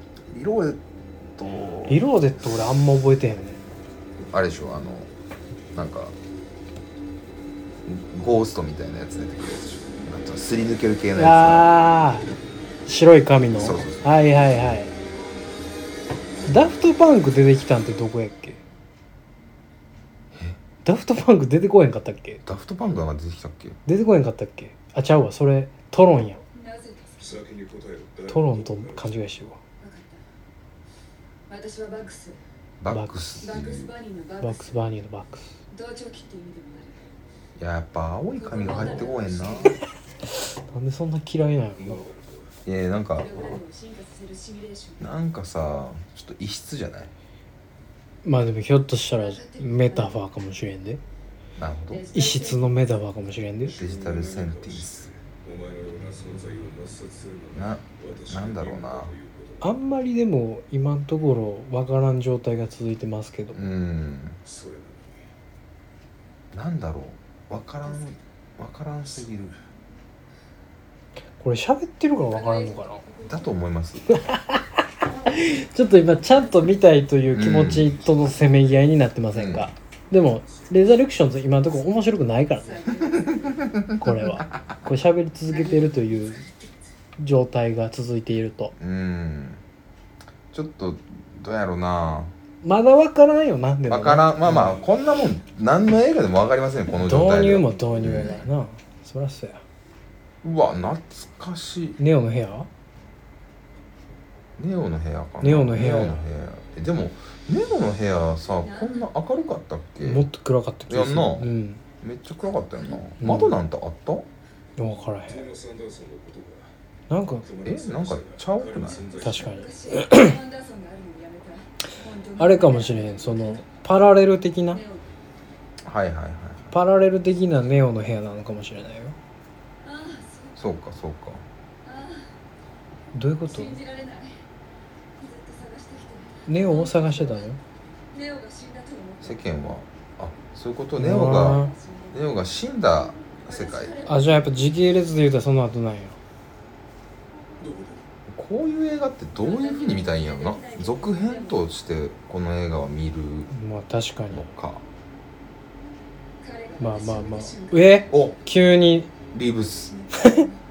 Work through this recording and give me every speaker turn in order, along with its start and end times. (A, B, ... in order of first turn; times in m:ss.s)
0:00.3-0:00.8 A
0:01.4-0:02.0 A
0:01.9-0:03.6 B
0:04.3-0:05.1 A
0:05.7-0:06.1 A
0:07.8-0:11.7 A
0:11.1-0:12.3 B
0:12.8-0:14.9 B
0:13.6-0:14.1 A
0:16.5-0:18.6 B
0:20.3-0:20.6 A
0:20.8-0:22.4 B
0:22.4-0:23.8 A
0:23.8-0:26.4 B
0:26.5-0:27.4 C
0:27.2-0:29.2 D
0:28.3-0:29.6 B
0:29.8-0:30.2 C
0:31.5-0:32.4 C
0:32.8-0:33.9 A
0:32.9-0:33.1 B
0:33.4-0:34.8 C
0:34.4-0:35.5 B
0:35.7-0:37.1 C
0:37.6-0:39.8 A
0:38.4-0:39.8 C
0:38.7-0:39.7 D
0:40.3-0:42.0 B
0:41.8-0:42.5 D
0:42.6-0:43.6 A
0:43.2-0:45.1 C
0:45.0-0:47.1 A
0:48.2-0:51.0 B
0:49.1-0:50.2 C
0:51.6-0:52.0 A
0:51.9-0:52.7 C
0:52.1-0:53.8 B
0:53.7-0:59.8 D
0:53.8-0:55.1 A
0:57.5-0:59.1 A
0:59.6-1:03.6 B
1:03.5-1:04.4 A
1:04.4-1:05.3 D
1:06.5-1:09.5 A
1:11.4-1:13.0 B
1:12.2-1:13.6 C
1:13.2-1:14.1 A
1:14.1-1:22.8 B
1:15.0-1:15.6 C
1:17.3-1:18.0 A
1:19.3-1:19.7 A
1:20.2-1:21.4 D
1:22.5-1:23.8 C
1:23.1-1:24.7 A
1:24.0-1:26.4 B
1:25.5-1:26.5 C
1:27.2-1:28.7 B
1:28.8-1:29.6 A
1:30.5-1:32.3 A
1:32.6-1:34.8 B
1:33.9-1:38.4 A
1:37.0-1:39.6 B
1:40.4-1:42.0 A
1:42.0-1:42.7 B
1:44.6-1:50.2 A
1:45.4-1:46.2 B
1:48.6-1:49.1 C
1:50.0-1:51.8 B
1:50.9-1:51.5 A
1:52.0-1:54.2 A
1:53.2-1:53.5 B
1:54.8-1:55.4 B
1:55.2-1:56.7 D
1:57.1-1:57.4 B
1:57.4-1:59.6 D
1:57.6-1:59.1 A
1:59.2-2:03.7 C
1:59.2-2:00.4 B
2:02.4-2:04.8 B
2:04.7-2:05.1 C
2:05.8-2:06.6 A
2:06.7-2:09.2 B
2:09.8-2:10.6 C
2:10.6-2:11.4 A
2:11.8-2:12.3 C
2:13.1-2:13.8 B
2:13.5-2:14.4 C
2:15.2-2:17.5 C
2:16.5-2:17.6 B
2:18.1-2:19.4 C
2:19.2-2:24.0 A
2:21.0-2:21.7 B
2:21.3-2:22.3 C
2:23.1-2:24.7 C
2:24.0-2:26.2 B
2:27.6-2:28.0 D
2:28.3-2:33.5 A
2:29.4-2:31.6 C
2:33.5-2:34.5 B
2:34.3-2:34.8 A
2:36.4-2:38.1 C
2:36.8-2:39.1 B
2:38.1-2:38.4 A
2:39.3-2:40.0 A
2:40.1-2:40.4 B
2:40.1-2:40.4 C